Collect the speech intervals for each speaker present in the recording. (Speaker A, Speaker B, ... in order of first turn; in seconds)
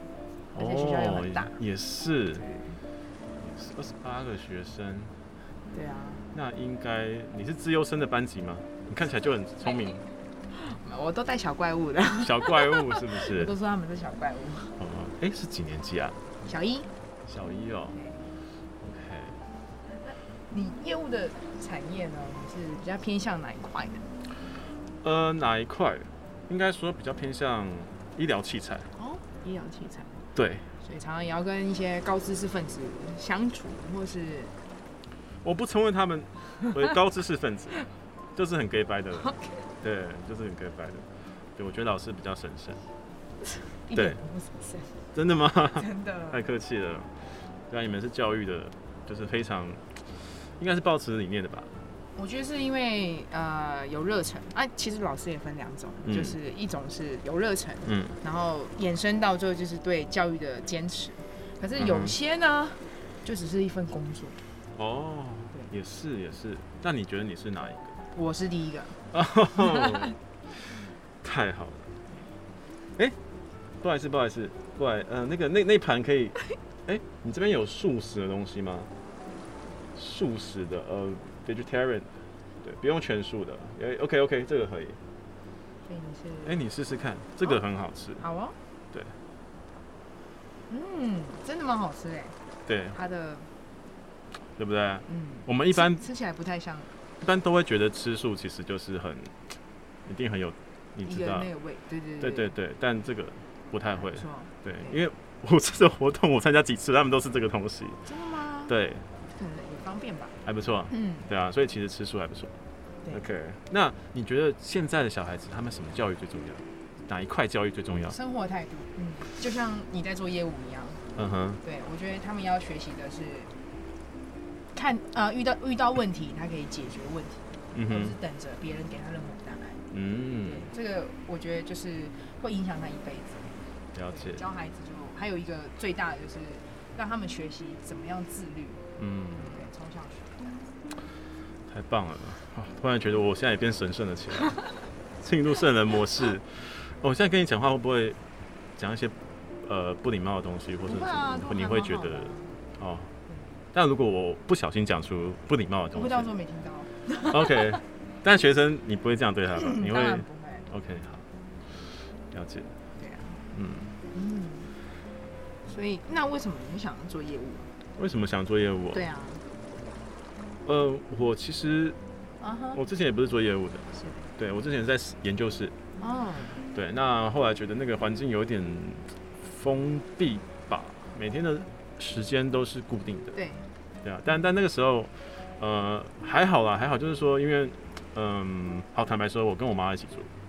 Speaker A: 0.5-2.4, 3.4-5.1, 6.3-10.0, 12.2-13.5, 14.8-16.2, 17.3-18.0, 18.8-19.4, 25.0-28.9, 30.4-30.7, 35.4-37.8, 38.4-42.8, 45.1-47.1, 47.7-49.8, 50.6-51.7, 56.0-56.4, 57.9-58.1, 61.8-62.1, 64.8-68.0, 69.1-70.2, 71.2-72.0, 73.8-78.9, 80.0-85.0, 86.5-88.2, 92.7-93.0, 94.6-96.0, 97.2-99.3, 100.1-101.5, 102.2-108.0, 108.7-109.1, 110.5-112.5, 113.1-118.2, 121.2-121.6, 127.7-128.2, 129.9-130.7, 133.9-134.4, 139.0-139.6, 141.7-144.6, 145.2-148.2, 148.8-153.1, 153.7-156.3, 157.2-161.2, 162.3-162.7, 163.5-163.9, 168.0-169.1, 170.7-172.0, 172.7-175.8, 176.7-183.4, 184.0-190.3
Speaker B: 0.6-1.6, 2.3-2.8, 5.7-6.3, 10.5-14.8, 16.4-16.9, 17.9-18.2, 20.0-24.1, 28.9-30.2, 30.8-34.5, 39.2-39.6, 43.7-45.0, 45.8-46.4, 52.2-64.4, 68.1-69.0, 69.7-70.1, 85.8-86.6, 88.2-88.6, 90.7-92.4, 92.9-93.5, 95.1-96.9, 101.1-102.5, 104.0-105.0, 108.1-108.7, 109.3-110.4, 110.9-111.3, 118.1-121.0, 121.6-123.5, 124.7-129.8, 130.4-133.6, 134.1-138.8, 139.3-140.6, 150.9-152.6, 155.9-157.8, 159.6-160.7, 163.0-163.4, 164.1-164.7, 165.7-167.7, 168.9-169.4, 172.4-172.8, 173.9-174.3, 176.0-176.6, 183.3-183.7